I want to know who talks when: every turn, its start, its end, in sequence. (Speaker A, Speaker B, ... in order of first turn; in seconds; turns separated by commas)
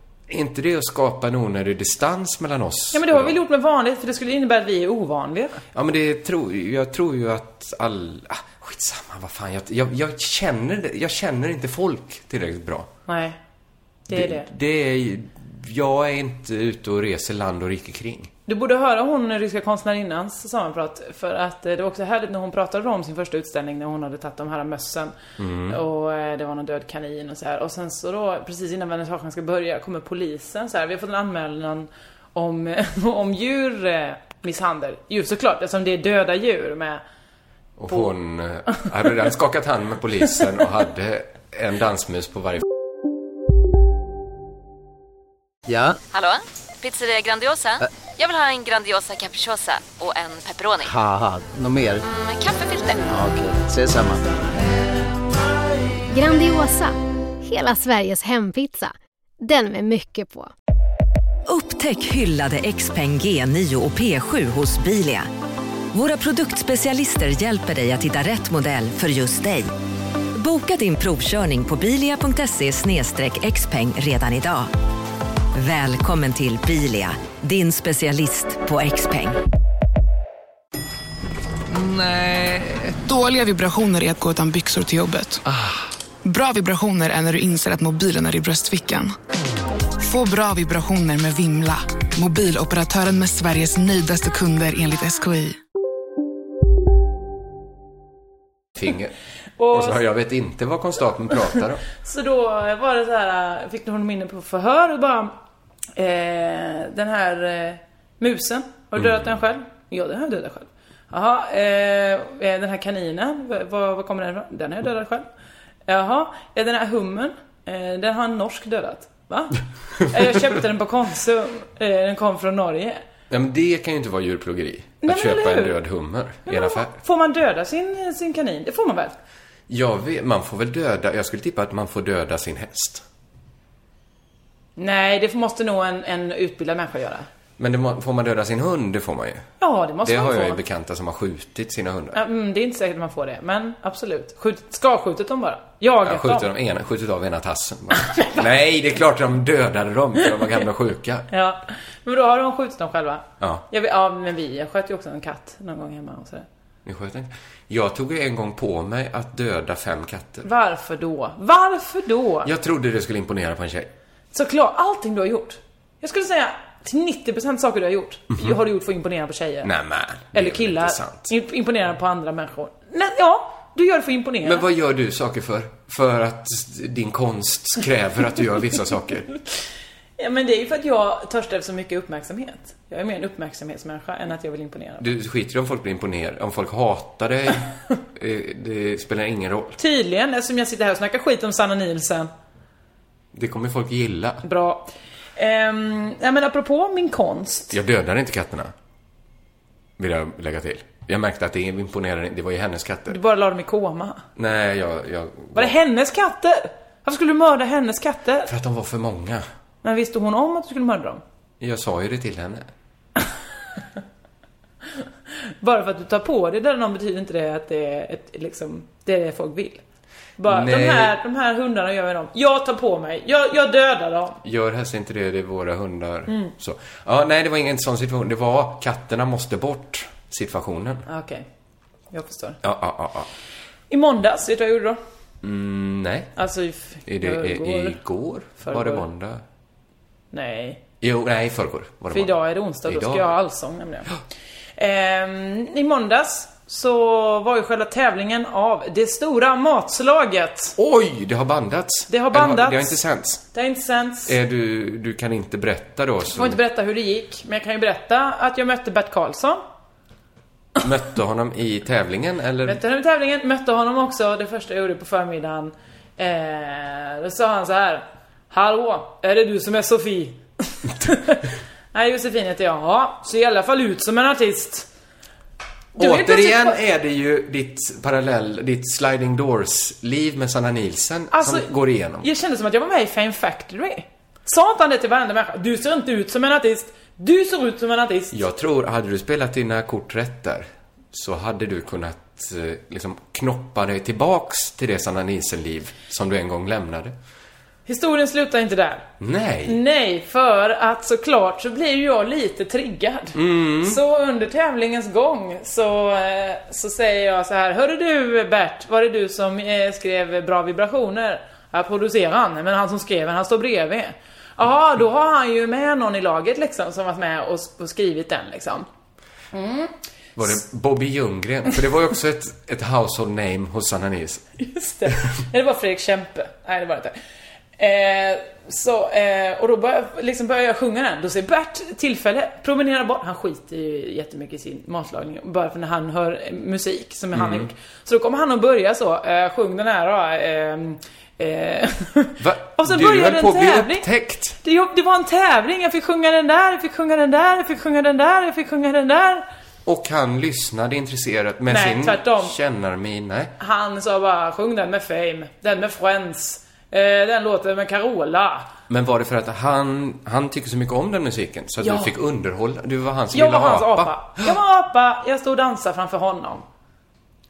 Speaker A: 0.3-3.4, Speaker B: 2.9-5.6, Speaker A: 5.7-12.9, Speaker B: 13.1-13.4, Speaker B: 14.1-14.5, Speaker A: 14.1-18.3, Speaker B: 18.5-25.1, Speaker A: 25.4-25.8, Speaker B: 25.7-37.0, Speaker A: 37.8-42.6, Speaker C: 45.7-46.0, Speaker D: 46.1-50.9, Speaker C: 50.9-52.0, Speaker D: 52.0-53.1, Speaker C: 53.1-54.3, Speaker E: 56.1-60.5, Speaker F: 61.5-65.3, Speaker F: 65.9-69.7, Speaker F: 70.3-74.7, Speaker F: 75.5-79.4, Speaker G: 81.7-85.4, Speaker G: 86.2-89.1, Speaker G: 90.0-95.5, Speaker A: 98.8-99.1, Speaker B: 99.6-100.0, Speaker A: 99.7-101.8, Speaker B: 102.0-105.3, Speaker B: 106.0-115.3, Speaker B: 115.9-123.0, Speaker A: 123.3-126.9, Speaker B: 125.0-125.8, Speaker B: 126.4-129.1, Speaker A: 129.7-133.0, Speaker B: 134.8-137.3, Speaker A: 137.6-139.5, Speaker B: 139.6-140.6, Speaker A: 140.0-142.2, Speaker B: 142.1-146.5, Speaker A: 146.0-151.3, Speaker B: 151.3-156.4, Speaker A: 153.4-153.6, Speaker A: 156.8-160.5, Speaker B: 160.4-162.5, Speaker A: 162.4-163.9, Speaker B: 164.3-169.7, Speaker A: 169.6-171.3, Speaker B: 170.3-174.6, Speaker A: 174.4-179.3, Speaker B: 180.2-185.1, Speaker A: 185.0-189.8, Speaker B: 189.8-192.3, Speaker A: 193.3-194.4, Speaker B: 194.4-197.7, Speaker A: 197.7-198.7, Speaker A: 200.0-203.2, Speaker B: 203.1-204.2, Speaker A: 204.4-205.8, Speaker B: 205.6-208.5, Speaker A: 208.5-209.4, Speaker B: 209.8-211.2, Speaker A: 211.6-212.7, Speaker B: 215.6-219.8, Speaker B: 220.4-224.4, Speaker A: 220.4-221.1, Speaker A: 224.4-231.1, Speaker B: 231.1-231.4, Speaker B: 232.1-232.6, Speaker A: 232.6-233.3, Speaker B: 233.9-235.0, Speaker A: 235.4-236.3, Speaker B: 236.4-238.0, Speaker A: 237.1-239.4, Speaker B: 238.6-239.1, Speaker B: 240.3-240.8, Speaker A: 241.0-243.3, Speaker B: 242.1-244.1, Speaker B: 244.8-250.8, Speaker A: 250.8-253.4, Speaker B: 252.1-253.0, Speaker B: 253.5-254.3, Speaker A: 254.3-256.6, Speaker B: 256.3-259.6, Speaker A: 260.8-262.8, Speaker B: 262.6-274.9, Speaker B: 275.9-276.8, Speaker A: 275.9-282.3, Speaker B: 281.3-281.7, Speaker B: 282.2-288.4, Speaker A: 288.3-297.1, Speaker B: 297.9-299.1, Speaker A: 299.2-299.8, Speaker B: 299.6-318.9, Speaker A: 303.3-304.0, Speaker B: 319.5-319.9, Speaker A: 320.4-324.4, Speaker B: 324.6-327.1, Speaker B: 327.8-344.1, Speaker A: 337.3-337.7, Speaker A: 342.4-344.6, Speaker B: 344.6-349.4, Speaker A: 349.8-353.5, Speaker B: 351.7-352.5, Speaker B: 353.6-358.7, Speaker A: 358.9-364.5, Speaker B: 361.8-362.1, Speaker B: 363.3-366.6